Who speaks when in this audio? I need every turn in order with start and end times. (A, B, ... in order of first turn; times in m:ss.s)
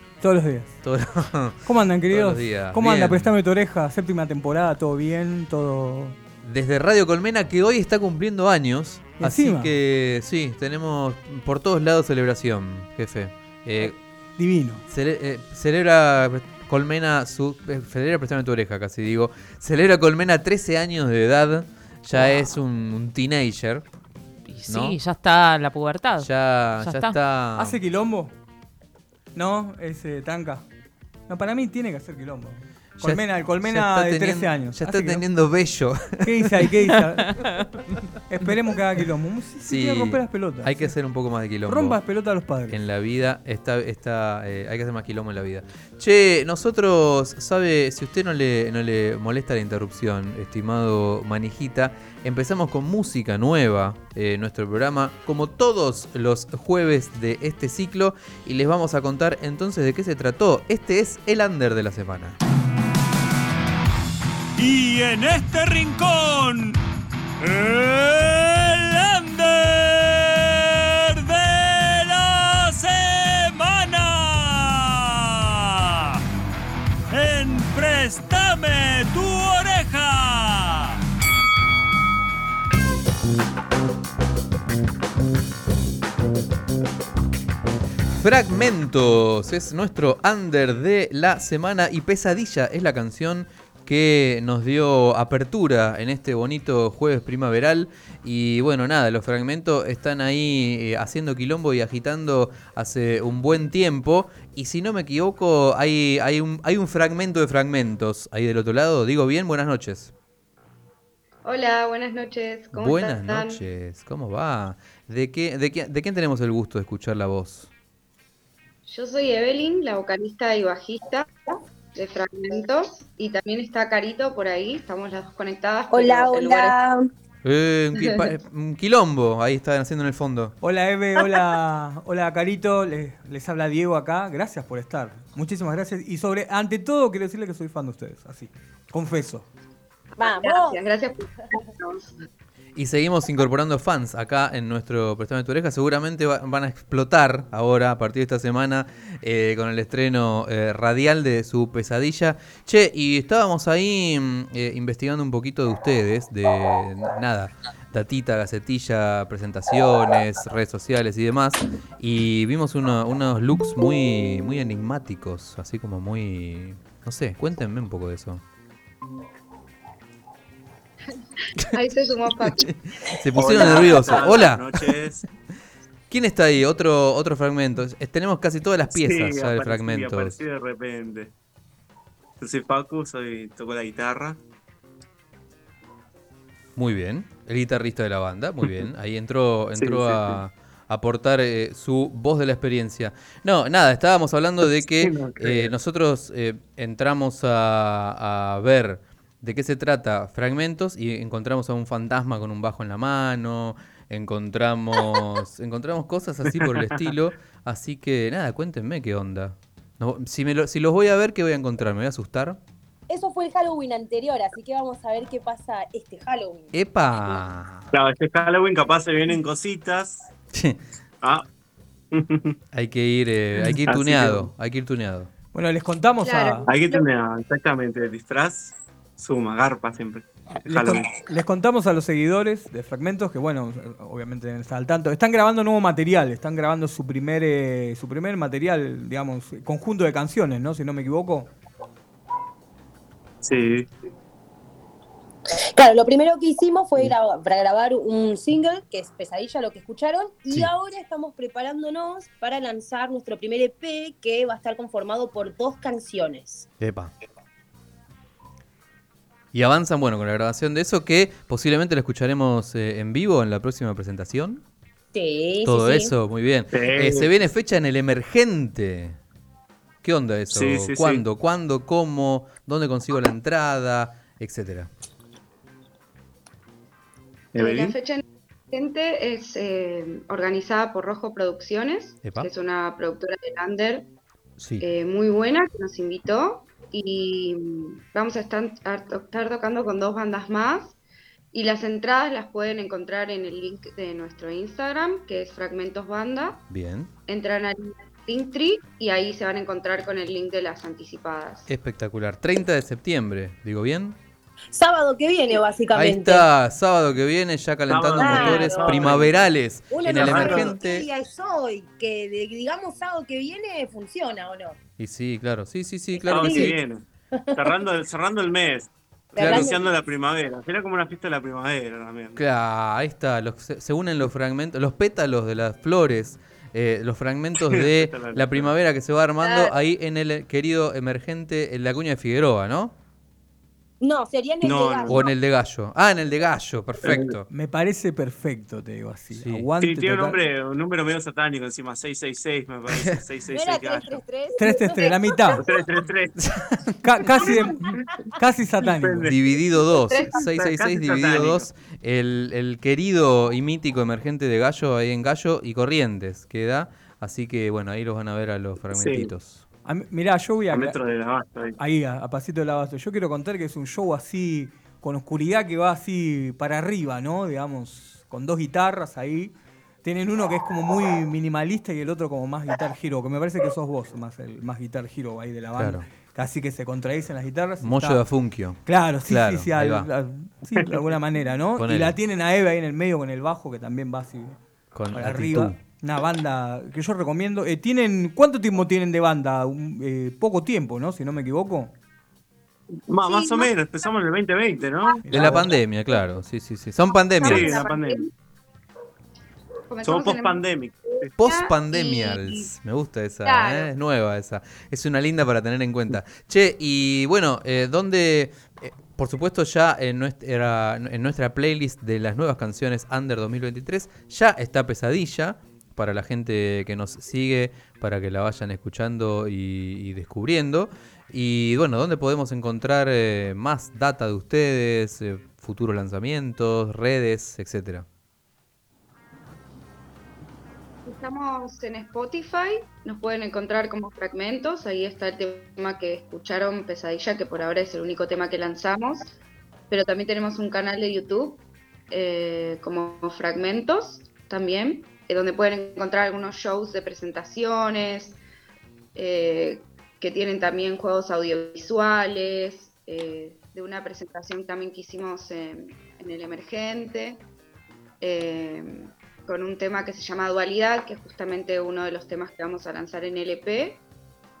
0:00.2-0:00.8 A
0:00.8-0:03.3 B
0:01.6-0:06.2 A
0:06.4-0:14.0 B
0:09.2-0:09.7 A
0:13.8-0:14.8 A
0:14.9-0:23.8 B
0:22.1-0:22.6 C
0:24.5-0:27.2 C
0:24.7-0:25.0 B
0:26.2-0:27.8 B
0:27.6-0:28.3 A
0:29.3-0:30.6 A
0:31.3-0:35.2 A
0:33.0-0:37.0 B
0:36.2-0:37.5 A
0:38.3-0:40.9 A
0:39.6-0:42.0 B
0:41.6-0:42.8 A
0:42.7-1:02.4 B
1:04.6-1:06.8 D
1:07.4-1:16.2 D
1:17.1-1:21.0 D
1:28.1-1:50.1 B
1:51.4-1:53.6 E
1:52.7-1:57.7 B
1:58.9-2:06.8 E
2:05.9-2:07.1 F
2:07.4-2:10.5 B
2:07.9-2:08.3 E
2:10.6-2:19.5 A
2:20.2-2:20.8 F
2:20.2-2:22.2 E
2:22.8-2:48.4 B
2:51.6-2:52.7 E
2:52.4-2:54.9 B
2:53.3-2:55.2 G
2:53.6-2:54.2 E
2:56.1-3:00.4 B
2:58.9-3:01.3 G
3:02.4-3:04.4 G
3:06.8-3:32.6 B
3:09.8-3:10.4 G
3:15.0-3:15.7 G
3:26.5-3:26.9 G
3:33.1-3:36.7 F
3:36.7-3:37.9 B
3:37.9-3:40.3 G
3:40.5-3:40.8 B
3:42.1-3:42.5 G
3:42.7-3:45.3 B
3:43.7-3:44.5 G
3:45.5-3:46.7 A
3:46.2-3:47.0 E
3:46.7-3:51.1 G
3:50.6-4:01.5 A
4:03.4-4:03.9 G
4:05.7-4:16.7 F
4:16.8-4:17.1 B
4:19.5-4:24.6 B
4:25.1-4:26.1 F
4:25.6-4:29.2 B
4:26.7-4:27.3 G
4:30.0-4:34.9 B
4:30.5-4:31.2 G
4:37.5-4:38.0 G
4:37.6-4:44.1 E
4:42.2-4:42.5 B
4:44.6-4:44.8 B
4:44.8-4:51.0 E
4:51.5-4:56.6 E
4:56.7-4:57.1 B
4:57.3-5:01.7 E
5:01.7-5:04.2 B
5:04.7-5:06.5 F
5:05.9-5:11.1 B
5:07.9-5:09.5 G
5:08.1-5:09.3 F
5:09.9-5:14.8 F
5:10.0-5:10.7 G
5:15.0-5:16.8 B
5:16.2-5:16.8 F
5:16.2-5:17.0 G
5:17.3-5:17.8 F
5:17.5-5:22.4 G
5:19.4-5:19.9 F
5:19.4-5:19.8 B
5:22.4-5:32.9 B
5:27.6-5:28.7 G
5:29.4-5:29.7 E
5:34.0-5:35.3 F
5:34.6-5:35.2 G
5:35.1-5:37.4 B
5:37.0-5:37.3 G
5:37.5-5:40.4 A
5:39.3-5:39.7 B
5:39.8-5:44.2 G
5:42.9-5:43.2 B
5:43.5-5:45.6 F
5:44.6-5:45.6 A
5:45.6-5:46.4 G
5:47.0-5:49.3 A
5:48.8-5:49.4 G
5:49.2-5:59.6 B
5:49.9-5:50.4 E
5:50.3-5:51.7 G
5:58.9-5:59.3 G
5:59.8-6:01.0 A
6:00.7-6:01.8 G
6:01.8-6:18.2 A
6:15.8-6:16.0 B
6:17.8-6:20.1 B
6:18.8-6:24.6 A
6:21.8-6:22.2 B
6:24.9-6:25.8 B
6:25.1-6:31.9 A
6:33.1-6:35.6 G
6:33.2-6:33.7 E
6:35.2-6:35.7 A
6:35.3-6:37.8 B
6:37.4-6:38.3 E
6:37.4-6:38.2 G
6:39.9-6:42.7 E
6:40.0-6:41.3 G
6:41.4-7:08.0 B
6:43.4-6:43.9 E
7:11.0-7:19.3 E
7:19.9-7:28.4 E
7:29.1-7:37.4 E
7:38.2-7:44.0 E